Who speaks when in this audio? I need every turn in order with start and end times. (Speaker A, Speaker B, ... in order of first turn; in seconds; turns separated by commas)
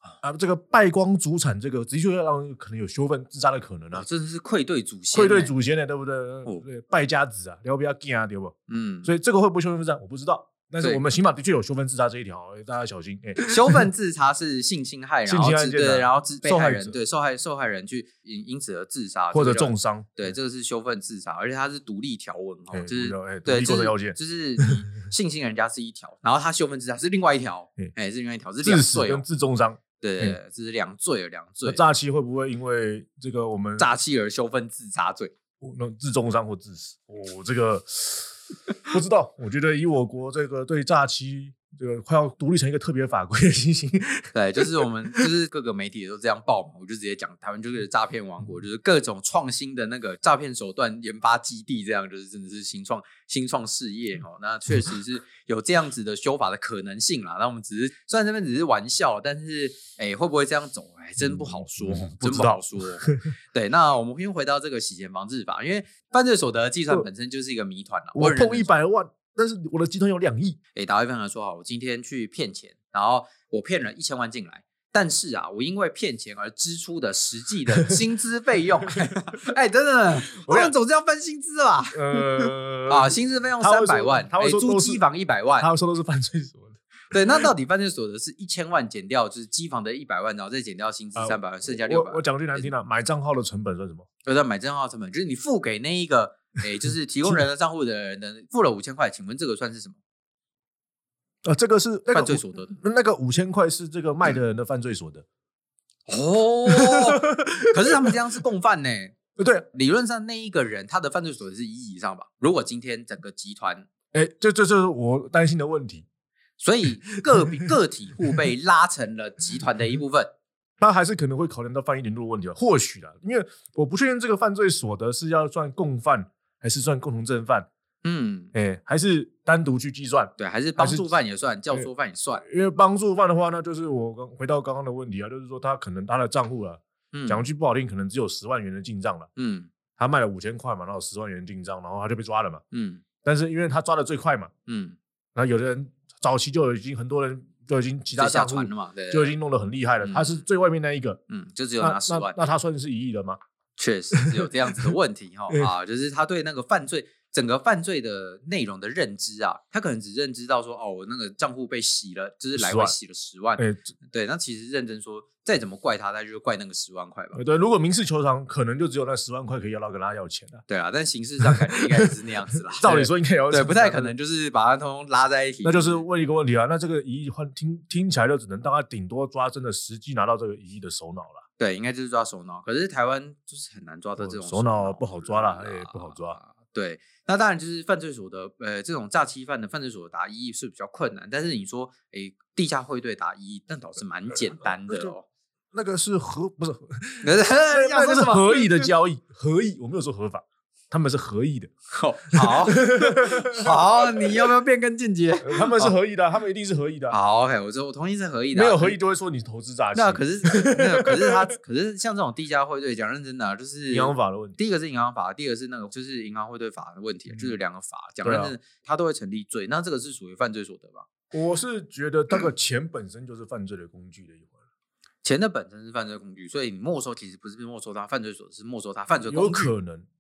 Speaker A: 0.2-4.1, Speaker B: 3.9-5.5, Speaker A: 5.1-13.8, Speaker B: 8.7-9.1, Speaker B: 13.4-29.2, Speaker A: 15.3-17.0, Speaker A: 19.3-20.3, Speaker A: 22.7-24.6, Speaker A: 28.6-30.4, Speaker B: 30.0-31.8, Speaker A: 31.6-33.9, Speaker B: 33.8-35.3, Speaker A: 35.6-45.3, Speaker B: 44.3-68.7, Speaker A: 61.2-63.3, Speaker A: 68.2-70.6, Speaker B: 70.8-85.7, Speaker A: 80.4-80.7, Speaker A: 81.9-85.0, Speaker A: 85.6-87.5, Speaker B: 87.1-92.7, Speaker A: 91.2-94.1, Speaker B: 94.2-100.0, Speaker A: 101.4-105.2, Speaker B: 102.1-102.8, Speaker B: 106.1-109.2, Speaker A: 106.7-108.1, Speaker A: 109.4-109.7, Speaker B: 109.7-113.9, Speaker A: 114.1-116.1, Speaker B: 116.6-120.3, Speaker A: 120.8-127.7, Speaker B: 128.0-128.5, Speaker A: 128.5-131.1, Speaker B: 130.4-132.4, Speaker A: 132.4-139.3, Speaker B: 137.1-137.5, Speaker B: 139.4-139.7, Speaker A: 139.9-142.6, Speaker B: 142.7-143.0, Speaker A: 143.2-144.5, Speaker B: 144.7-145.0, Speaker A: 145.3-151.2, Speaker B: 148.2-149.4, Speaker B: 150.0-150.4, Speaker B: 151.3-152.4, Speaker A: 151.8-153.4, Speaker B: 153.8-167.4, Speaker A: 154.1-154.9, Speaker A: 162.6-163.0, Speaker A: 163.6-163.9, Speaker A: 167.3-170.7, Speaker B: 170.7-176.0, Speaker A: 171.4-171.8, Speaker A: 172.7-174.2, Speaker A: 175.6-181.4, Speaker B: 181.6-195.3, Speaker A: 184.2-186.4, Speaker A: 194.5-195.2, Speaker A: 195.7-201.7, Speaker B: 197.2-198.9, Speaker B: 201.9-205.9, Speaker A: 202.3-204.3, Speaker A: 205.4-207.2, Speaker B: 207.1-209.0, Speaker A: 208.5-211.5, Speaker B: 209.9-221.1, Speaker A: 213.9-214.6, Speaker A: 218.2-218.6, Speaker A: 221.3-224.6, Speaker B: 225.2-229.7, Speaker A: 229.3-230.1